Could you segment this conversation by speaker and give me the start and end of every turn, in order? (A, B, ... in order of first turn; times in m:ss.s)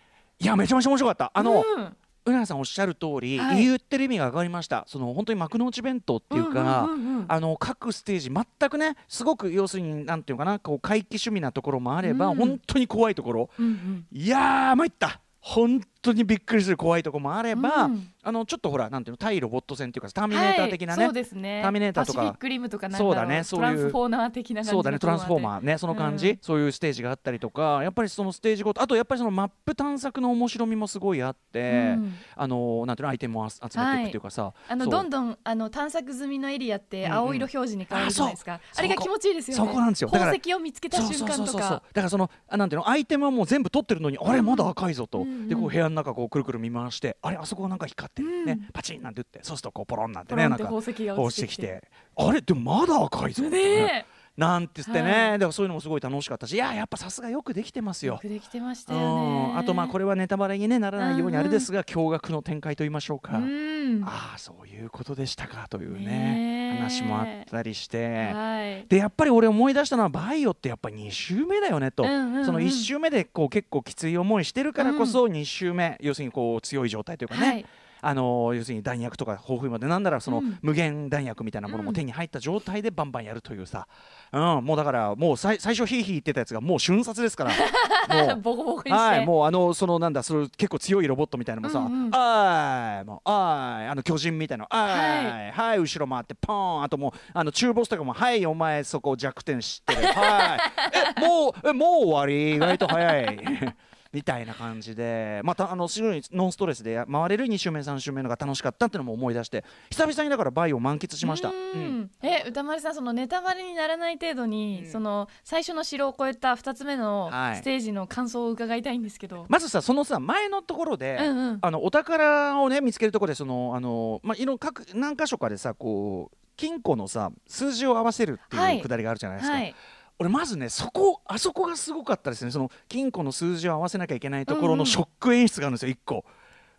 0:00.4-0:01.7 A
0:01.4-0:02.0 B
0:02.2-0:22.4 A
0:03.4-0:03.7 B
0:06.3-0:07.3 B
0:12.0-0:12.6 B
0:13.6-0:14.1 B
0:17.5-0:18.1 B
0:20.3-0:26.4 B
0:22.9-0:24.0 A
0:24.6-0:35.1 A
0:31.7-0:32.2 B
0:33.7-0:41.8 B
0:37.0-0:40.4 A
0:40.9-0:58.2 A
0:44.3-0:45.8 B
0:48.2-0:48.7 B
0:50.3-0:51.7 B
0:53.4-0:54.1 B
0:54.8-0:55.4 B
0:58.0-1:00.0 B
0:58.9-1:03.5 A
1:01.0-1:01.7 B
1:03.3-1:04.1 B
1:04.0-1:08.4 A
1:05.9-1:07.5 B
1:08.2-1:08.9 B
1:08.9-1:52.0 A
1:12.0-1:12.9 B
1:14.8-1:15.2 B
1:17.3-1:17.7 B
1:20.3-1:20.6 B
1:21.7-1:22.0 B
1:27.5-1:29.3 B
1:31.6-1:32.2 B
1:34.9-1:35.4 B
1:39.9-1:41.2 B
1:42.6-1:43.3 B
1:51.2-1:59.5 B
1:54.7-1:55.0 A
1:57.3-1:57.6 A
1:59.5-2:16.3 A
2:01.2-2:01.6 B
2:08.5-2:09.8 B
2:14.5-2:15.0 B